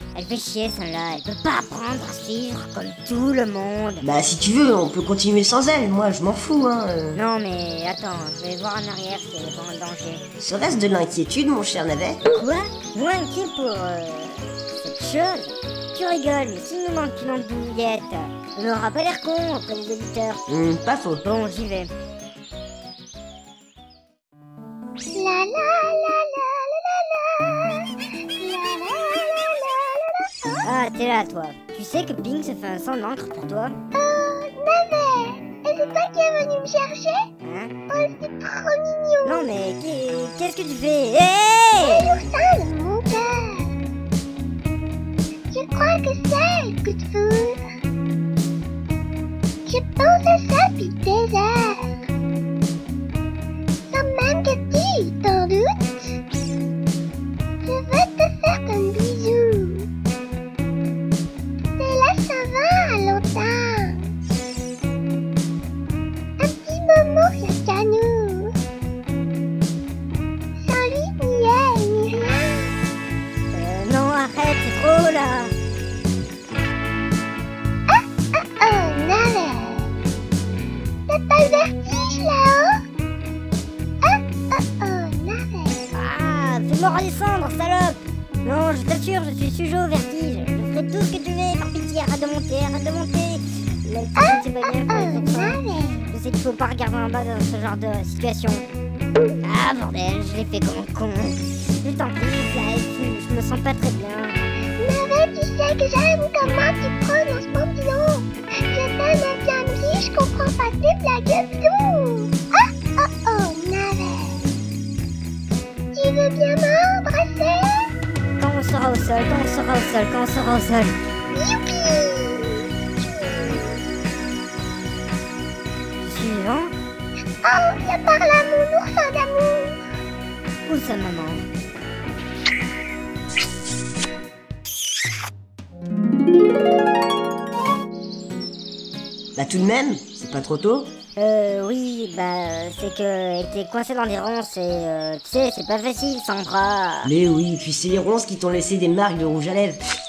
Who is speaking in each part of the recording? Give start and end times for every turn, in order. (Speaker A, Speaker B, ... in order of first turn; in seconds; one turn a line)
Speaker A: 0.1-4.1
Speaker B: 4.0-7.2
Speaker A: 7.1-10.2
Speaker B: 10.4-12.2
Speaker A: 12.3-20.4
Speaker B: 20.5-21.2
Speaker A: 21.2-21.9
Speaker C: 25.1-30.7
Speaker A: 30.6-33.8
Speaker C: 33.9-37.2
Speaker A: 37.4-37.7
Speaker C: 37.9-39.5
Speaker A: 39.2-42.1
Speaker C: 41.8-43.8
Speaker C: 45.5-47.6
Speaker C: 49.6-52.0
Speaker C: 53.9-55.9
Speaker C: 57.6-59.9
Speaker C: 61.8-64.1
Speaker C: 66.4-68.5
Speaker C: 70.6-72.7
Speaker A: 73.5-75.5
Speaker C: 77.9-79.9
Speaker C: 81.1-82.8
Speaker C: 84.0-85.9
Speaker A: 85.9-95.6
Speaker C: 94.2-96.1
Speaker A: 96.1-98.6
Speaker A: 99.4-104.4
Speaker C: 104.8-114.5
Speaker C: 115.9-117.8
Speaker A: 118.4-120.9
Speaker C: 121.3-123.8
Speaker A: 126.0-126.7
Speaker C: 127.4-129.8
Speaker A: 130.7-131.4
Speaker B: 139.3-140.9
Speaker A: 141.2-147.1
Speaker B: 147.0-149.8